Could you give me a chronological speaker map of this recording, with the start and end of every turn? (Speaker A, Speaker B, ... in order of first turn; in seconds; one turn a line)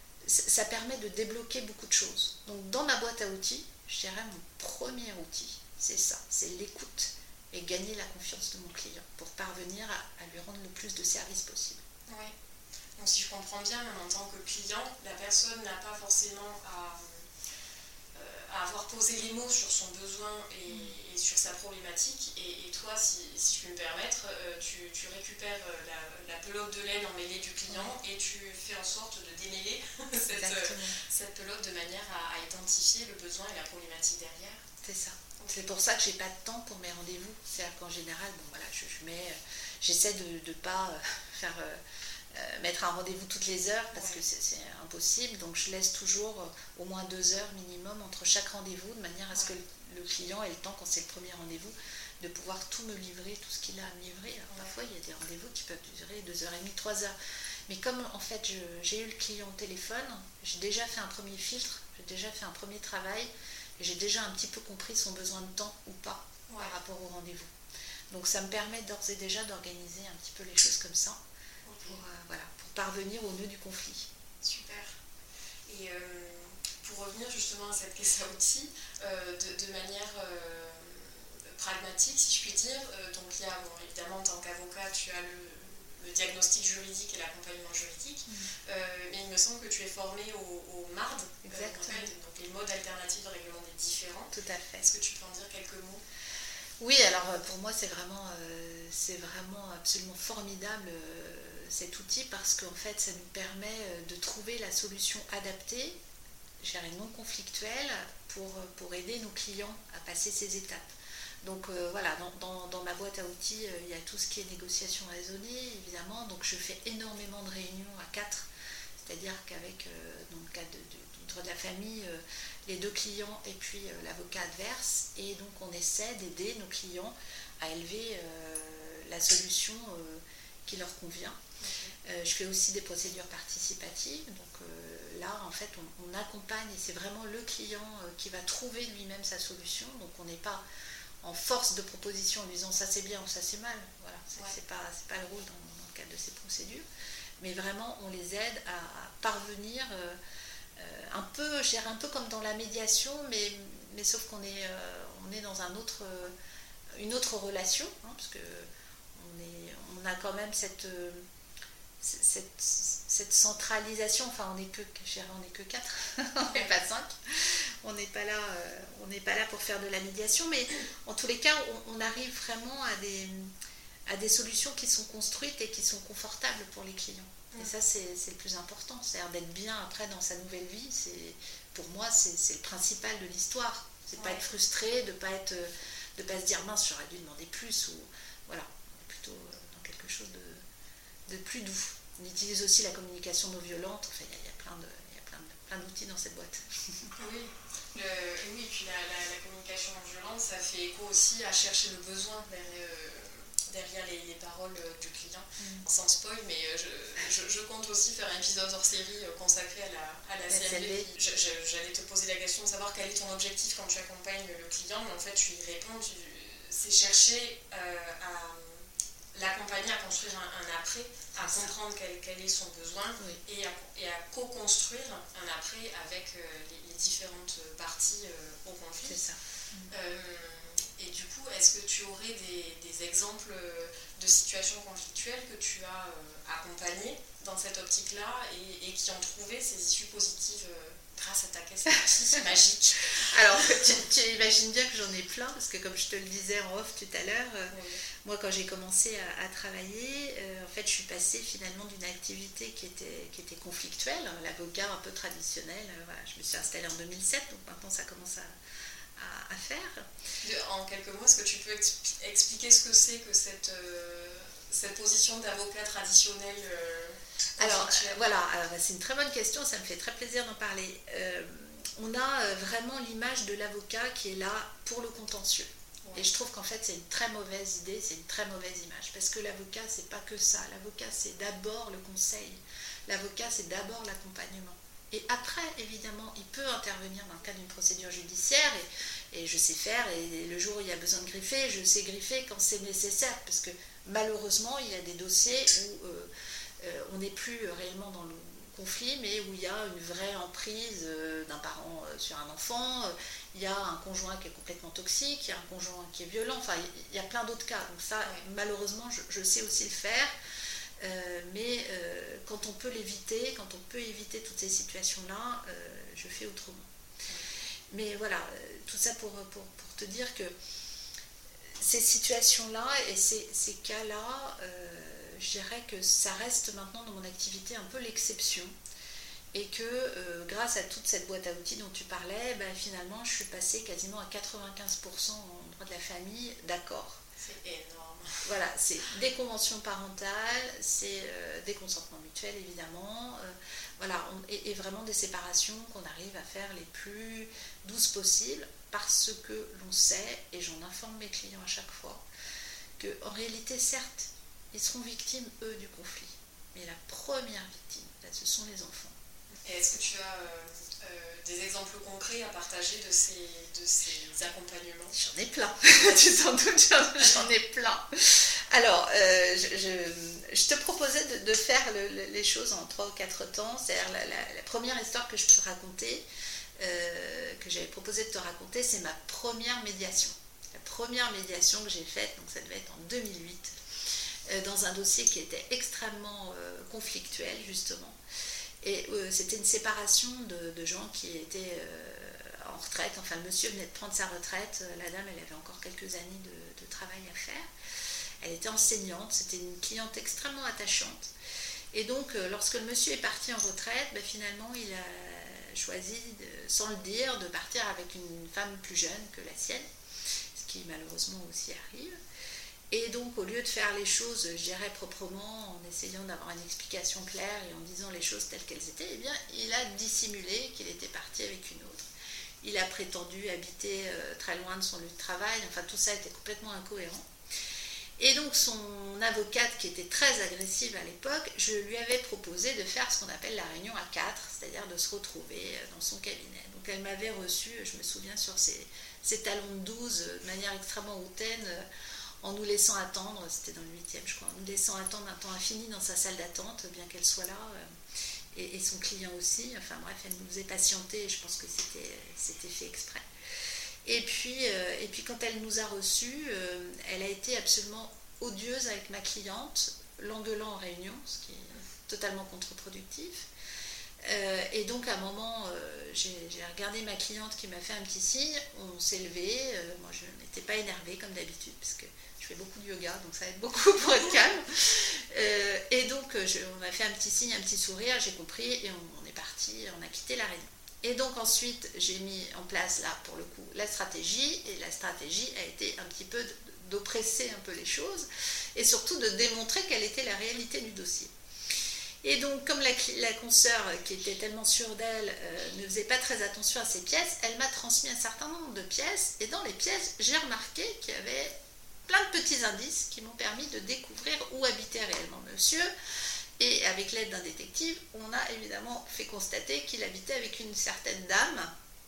Speaker A: 0.2-11.8
Speaker B: 12.1-12.3
Speaker B: 13.0-17.2
Speaker B: 18.1-34.6
Speaker A: 30.3-31.0
Speaker A: 34.8-41.8
Speaker B: 35.4-35.7
Speaker A: 42.3-57.1
Speaker B: 43.9-44.2
Speaker A: 57.7-67.5
Speaker B: 66.5-66.7
Speaker A: 68.1-71.2
Speaker B: 71.7-72.0
Speaker A: 71.8-74.1
Speaker B: 74.4-75.0
Speaker B: 75.7-96.0
Speaker A: 91.5-92.1
Speaker A: 94.3-94.9
Speaker A: 96.8-106.0
Speaker A: 106.6-118.5
Speaker A: 119.0-131.4
Speaker B: 131.6-132.0
Speaker A: 132.0-140.6
Speaker A: 141.2-146.9
Speaker A: 147.4-150.2
Speaker A: 150.8-156.3
Speaker A: 157.0-161.2
Speaker A: 162.0-173.5
Speaker B: 166.4-166.7
Speaker A: 174.1-190.6
Speaker B: 184.2-184.5
Speaker A: 191.3-197.1
Speaker B: 197.2-229.2
Speaker A: 205.6-205.8
Speaker A: 210.5-211.1
Speaker A: 221.4-221.7
Speaker A: 229.0-229.9
Speaker B: 229.9-244.0
Speaker A: 243.2-258.5
Speaker B: 247.7-248.0
Speaker A: 259.1-260.1
Speaker B: 260.4-268.3
Speaker A: 267.6-310.3
Speaker B: 276.0-276.3
Speaker A: 311.0-316.9
Speaker A: 317.9-320.5
Speaker A: 321.8-328.7
Speaker A: 329.5-337.2
Speaker B: 337.4-338.5
Speaker A: 338.4-352.2
Speaker A: 353.0-359.1
Speaker B: 359.6-365.2
Speaker A: 365.1-376.2
Speaker A: 376.8-383.8
Speaker A: 384.5-388.2
Speaker A: 388.8-397.7
Speaker A: 398.4-401.3
Speaker A: 401.9-409.9
Speaker A: 410.5-412.1
Speaker A: 412.9-422.1
Speaker A: 422.6-427.3
Speaker A: 428.2-441.9
Speaker A: 442.4-447.9
Speaker A: 448.5-453.2
Speaker A: 454.0-463.5
Speaker A: 464.2-491.3
Speaker A: 492.2-501.5
Speaker A: 502.1-505.9
Speaker A: 506.6-511.7